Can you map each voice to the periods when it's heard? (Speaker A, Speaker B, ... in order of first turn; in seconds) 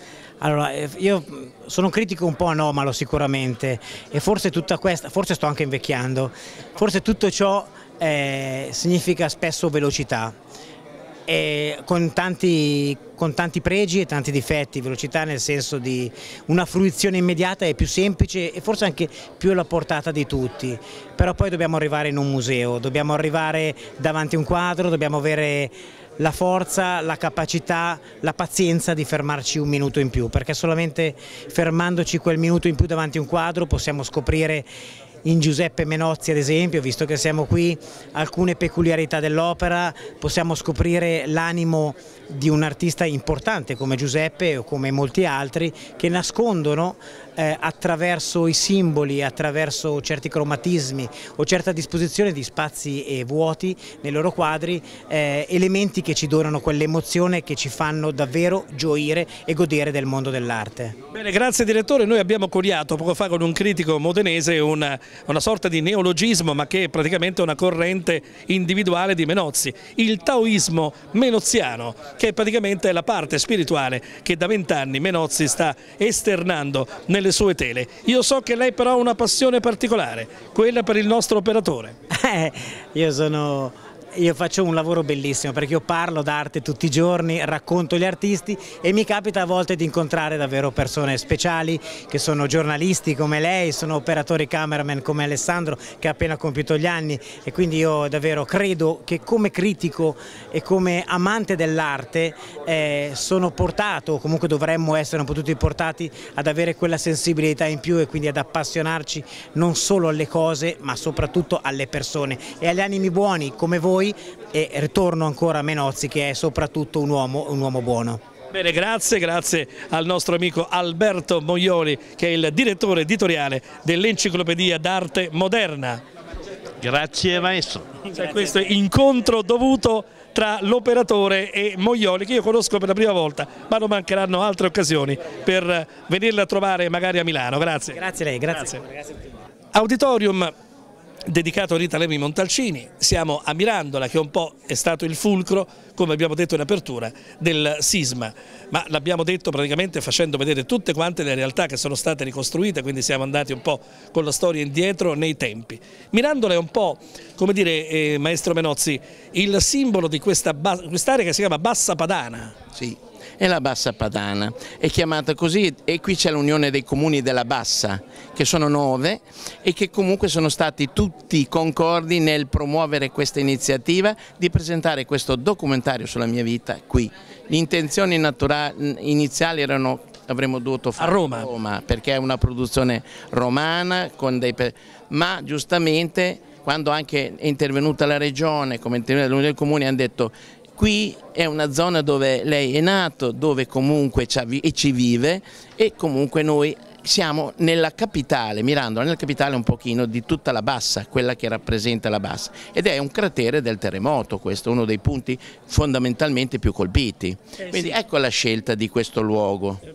Speaker A: 0.4-10.4, 11.3-34.7, 35.2-61.0, 82.1-118.2, 137.9-139.2
Speaker B: 61.1-82.0, 118.5-126.0, 128.1-138.0, 139.7-140.5, 141.3-162.6, 181.0-181.5, 207.6-208.0
Speaker C: 126.8-127.9, 162.7-209.8